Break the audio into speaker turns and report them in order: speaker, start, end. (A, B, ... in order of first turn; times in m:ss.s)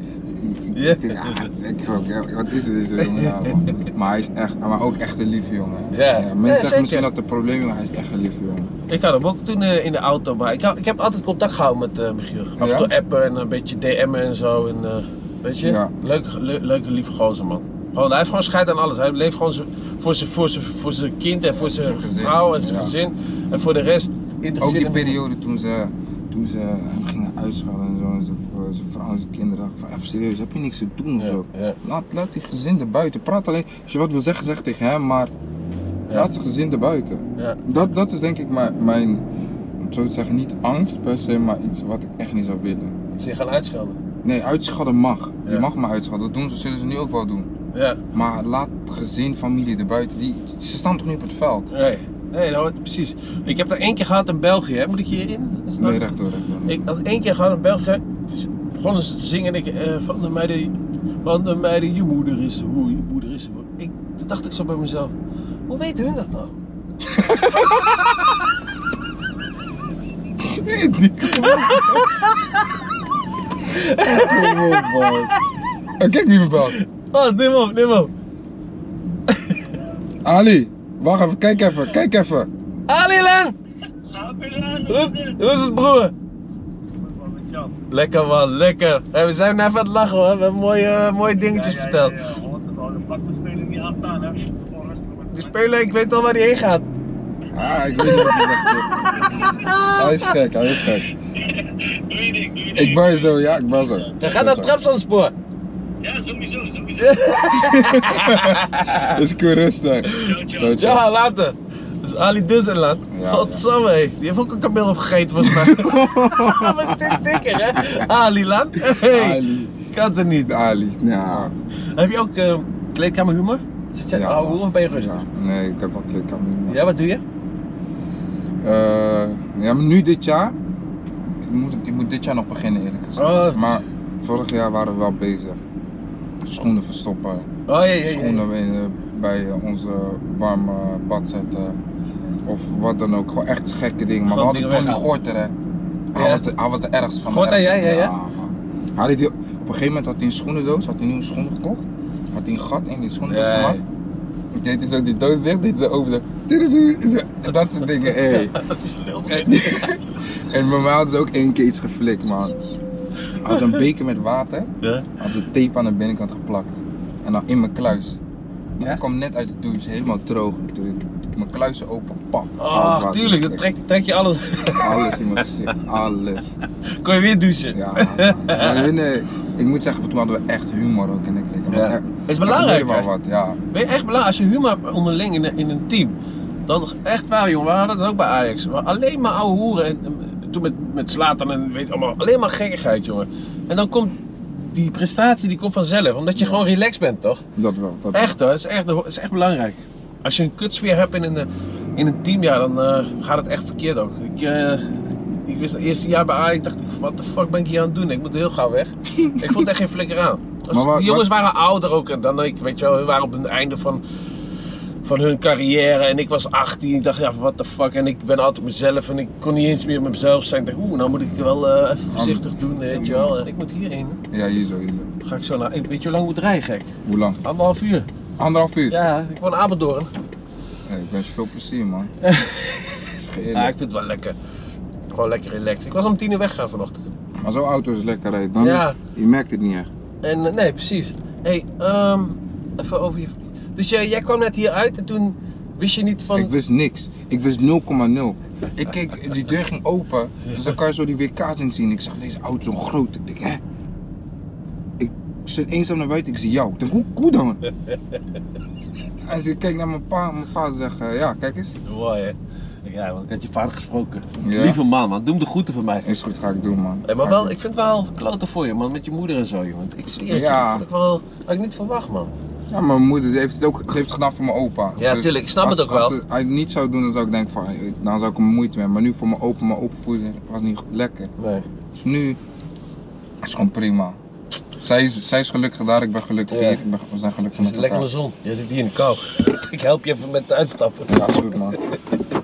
0:00.2-0:08.7 A
0:00.7-0:01.5 B
0:03.0-0:03.9 B
0:05.9-0:07.1 B
0:08.9-0:25.2 B
0:12.6-0:12.9 A
0:15.6-0:15.9 A
0:21.5-0:23.0 A
0:24.6-0:35.3 A
0:31.2-0:31.8 B
0:36.1-0:39.2 A
0:39.8-0:43.0 A
0:43.2-0:44.0 B
0:44.2-0:47.5 A
0:47.7-0:48.0 B
0:48.1-0:51.7 A
0:51.7-0:56.0 B
0:55.8-0:56.8 A
0:56.7-1:00.7 B
1:01.2-1:05.1 B
1:05.7-1:06.6 B
1:07.1-1:08.1 A
1:10.4-1:12.1 A
1:11.3-1:12.8 B
1:13.7-1:15.3 B
1:14.1-1:15.3 A
1:16.0-1:16.8 A
1:16.7-1:18.1 B
1:19.3-1:19.8 B
1:20.2-1:22.5 A
1:22.9-1:23.6 B
1:24.1-1:25.4 C
1:24.9-1:26.1 B
1:27.0-1:27.8 C
1:27.9-1:32.2 B
1:31.3-1:35.9 C
1:35.3-1:36.8 B
1:37.5-1:41.1 A
1:38.0-1:40.8 B
1:41.3-1:44.5 C
1:42.7-1:44.7 A
1:44.2-1:45.3 B
1:46.0-1:47.7 C
1:47.0-1:49.2 B
1:47.6-1:51.1 A
1:50.0-2:00.5 B
1:50.1-1:50.8 C
1:53.1-1:53.6 A
1:55.4-1:58.1 A
1:58.9-1:59.7 A
2:00.5-2:01.5 A
2:02.0-2:05.2 B
2:04.1-2:06.8 A
2:06.7-2:07.2 B
2:08.6-2:10.6 A
2:11.3-2:15.6 A
2:13.2-2:13.8 B
2:16.4-2:17.5 A
2:17.7-2:18.4 B
2:18.0-2:21.8 A
2:22.5-2:25.5 A
2:24.3-2:25.1 B
2:26.1-2:33.8 A
2:26.2-2:26.5 B
2:27.3-2:28.1 B
2:33.3-2:33.8 B
2:34.6-2:38.6 A
2:38.0-2:40.0 B
2:39.3-2:42.6 A
2:43.4-2:48.2 A
2:43.4-2:43.8 B
2:44.8-2:45.1 B
2:48.8-2:53.6 A
2:52.6-2:55.7 B
2:54.8-2:56.5 A
2:56.9-2:58.9 B
2:57.7-3:03.6 A
3:01.7-3:03.1 B
3:03.7-3:06.1 B
3:06.7-3:17.4 B
3:16.4-3:16.6 A
3:17.6-3:18.4 A
3:18.1-3:34.0 B
3:29.2-3:29.6 A
3:30.7-3:31.3 A
3:35.0-3:44.2 B
3:42.1-3:43.4 A
3:44.3-3:45.1 A
3:45.2-3:46.9 B
3:47.0-3:47.4 A
3:47.4-3:48.1 B
3:48.4-3:49.0 A
3:48.9-3:50.1 B
3:50.9-3:52.1 A
3:52.2-3:54.4 B
3:53.2-3:53.7 A
3:55.1-3:57.1 B
3:57.4-3:59.9 A
3:58.6-3:59.0 B
4:00.2-4:06.5 B
4:06.3-4:13.6 A
4:10.5-4:10.8 B
4:15.0-4:17.6 A
4:17.7-4:18.2 B
4:19.3-4:21.8 A
4:21.8-4:26.1 B
4:24.4-4:24.8 A
4:26.0-4:27.5 A
4:27.1-4:32.3 B
4:30.3-4:30.8 A
4:32.7-4:41.3 A
4:35.0-4:36.2 B
4:41.4-4:41.7 B
4:42.0-4:42.4 A
4:43.4-4:44.2 A
4:44.8-4:48.1 A
4:46.5-4:46.8 B
4:47.6-4:52.2 B
4:51.1-4:51.8 A